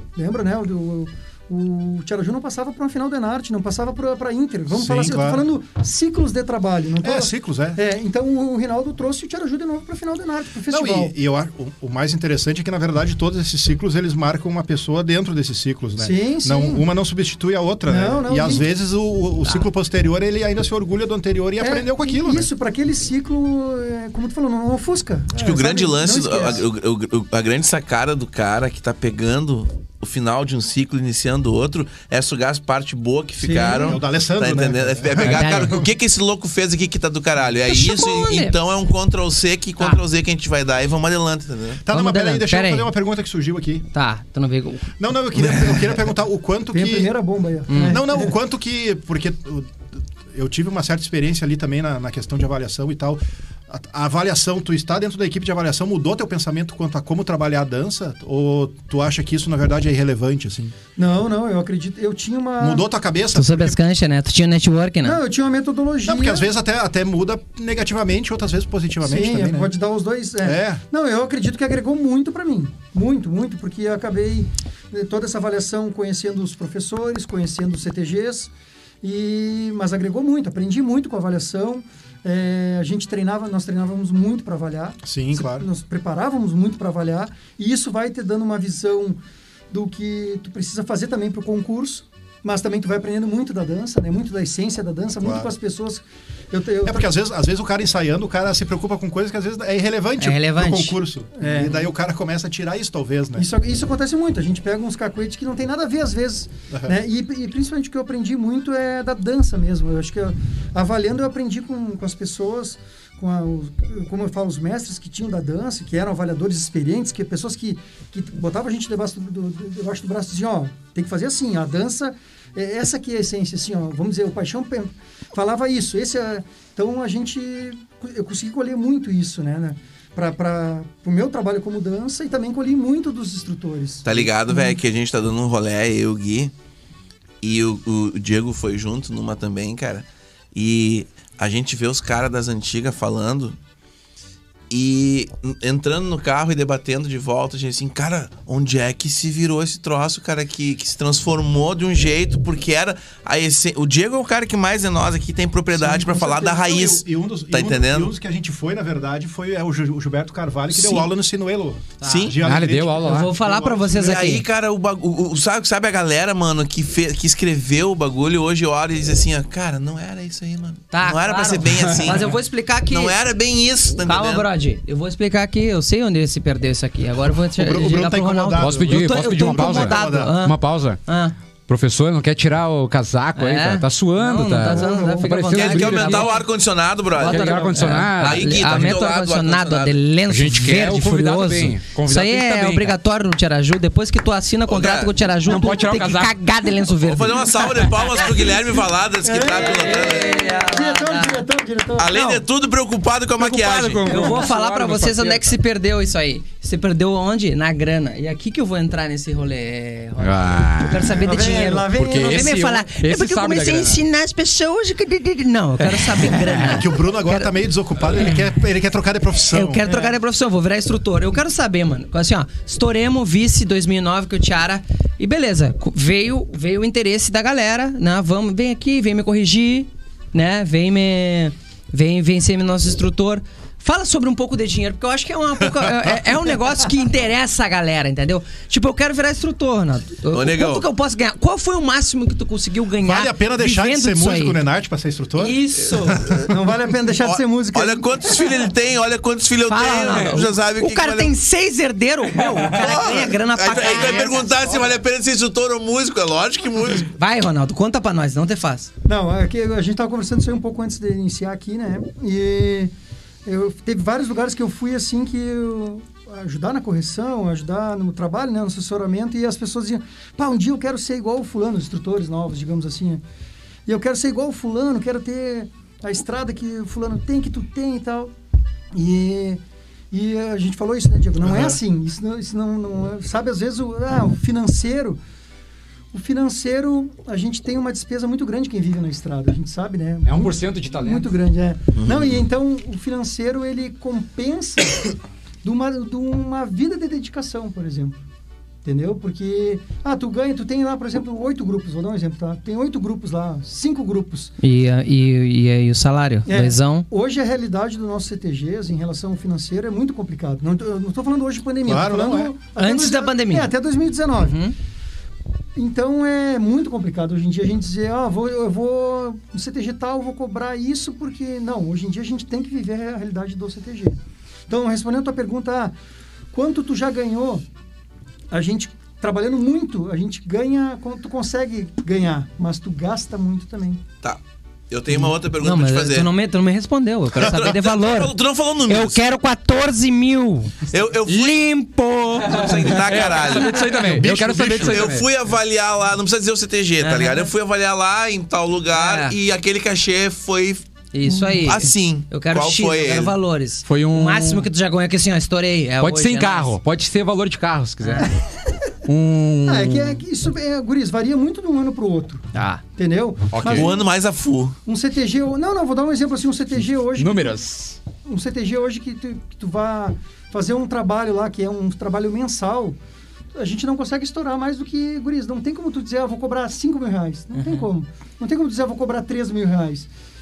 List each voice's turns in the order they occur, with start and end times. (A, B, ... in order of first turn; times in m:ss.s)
0:00.2-0:11.1 A
0:04.7-0:05.5 B
0:07.0-0:07.8 B
0:10.7-0:22.5 B
0:16.0-0:16.8 A
0:17.9-0:18.6 A
0:21.6-0:26.6 A
0:25.4-0:41.8 C
0:33.4-0:34.0 A
0:33.8-0:35.4 B
0:35.2-0:35.9 D
0:37.7-0:38.6 D
0:41.8-0:43.9 B
0:41.9-0:42.9 D
0:43.9-0:44.9 D
0:45.0-0:47.1 B
0:46.7-0:48.4 A
0:47.7-0:48.0 D
0:47.8-1:00.7 B
1:01.0-1:02.8 A
1:02.6-1:03.8 B
1:03.3-1:05.2 D
1:05.0-1:06.5 A
1:06.0-1:09.7 B
1:09.0-1:18.5 A
1:10.4-1:10.8 B
1:19.0-1:29.2 A
1:25.0-1:25.7 B
1:29.7-1:37.1 A
1:35.2-1:35.5 B
1:36.8-1:43.5 B
1:40.2-1:41.0 D
1:41.4-1:41.9 A
1:43.4-2:14.8 A
1:46.7-1:47.0 B
2:14.0-2:16.5 C
2:17.4-2:23.6 C
2:24.7-2:38.1 C
2:35.7-2:44.0 B
2:40.7-2:41.1 D
2:42.0-2:42.4 D
2:42.0-2:42.4 C
2:42.4-2:43.3 E
2:43.0-2:44.4 D
2:43.8-2:52.3 C
2:50.9-2:53.2 D
2:51.7-2:52.2 E
2:52.9-2:54.5 C
2:54.0-3:01.3 D
2:57.5-3:00.4 B
2:58.6-3:01.0 E
3:01.7-3:06.4 E
3:03.4-3:06.5 D
3:04.7-3:05.4 A
3:05.5-3:10.0 C
3:07.2-3:08.9 E
3:07.2-3:18.5 D
3:10.3-3:13.0 E
3:14.7-3:15.1 C
3:15.4-3:16.9 E
3:17.0-3:20.4 C
3:17.9-3:18.2 E
3:19.2-3:22.4 A
3:19.5-3:21.4 D
3:22.0-3:24.2 C
3:22.1-3:22.4 D
3:23.4-3:25.6 E
3:24.0-3:24.4 A
3:24.1-3:37.5 D
3:30.2-3:34.0 E
3:31.2-3:32.5 A
3:35.9-3:36.6 E
3:36.6-3:39.8 B
3:39.5-4:04.6 D
3:39.8-3:40.1 A
4:00.3-4:00.9 C
4:03.0-4:05.6 B
4:05.4-4:06.2 D
4:06.2-4:06.4 C
4:06.4-4:08.4 A
4:07.2-4:11.3 C
4:09.7-4:14.6 D
4:12.7-4:17.1 C
4:17.1-4:18.9 D
4:19.0-4:22.9 A
4:23.4-4:33.2 A
4:33.9-4:38.3 A
4:38.9-4:45.2 A
4:41.4-4:41.8 B
4:46.1-4:58.2 A
4:50.2-4:51.3 E
4:51.9-4:52.4 C
4:58.8-5:04.5 A
5:04.6-5:07.1 D
5:06.5-5:14.6 A
5:11.8-5:12.5 B
5:12.8-5:13.7 D
5:14.4-5:14.8 D
5:15.8-5:26.0 A
5:26.5-5:27.6 A
5:28.5-5:34.0 A
5:34.2-5:36.3 C
5:35.1-5:38.4 D
5:37.4-5:39.4 C
5:38.9-5:43.3 D
5:40.9-5:41.7 C
5:42.4-5:44.0 C
5:42.6-5:45.3 E
5:44.0-5:45.1 B
5:44.7-5:50.9 C
5:47.0-5:47.5 D
5:48.9-5:49.4 D
5:51.1-5:56.8 D
5:51.6-5:53.4 C
5:53.9-5:54.7 E
5:56.0-5:58.4 E
5:58.0-5:58.3 D
5:59.0-6:00.2 E
5:59.7-6:02.4 A
6:02.5-6:02.8 D
6:03.0-6:04.0 A
6:03.5-6:03.9 E
6:03.6-6:04.8 C
6:04.8-6:07.6 A
6:07.2-6:08.0 E
6:08.2-6:13.0 A
6:13.6-6:20.1 A
6:17.6-6:17.9 D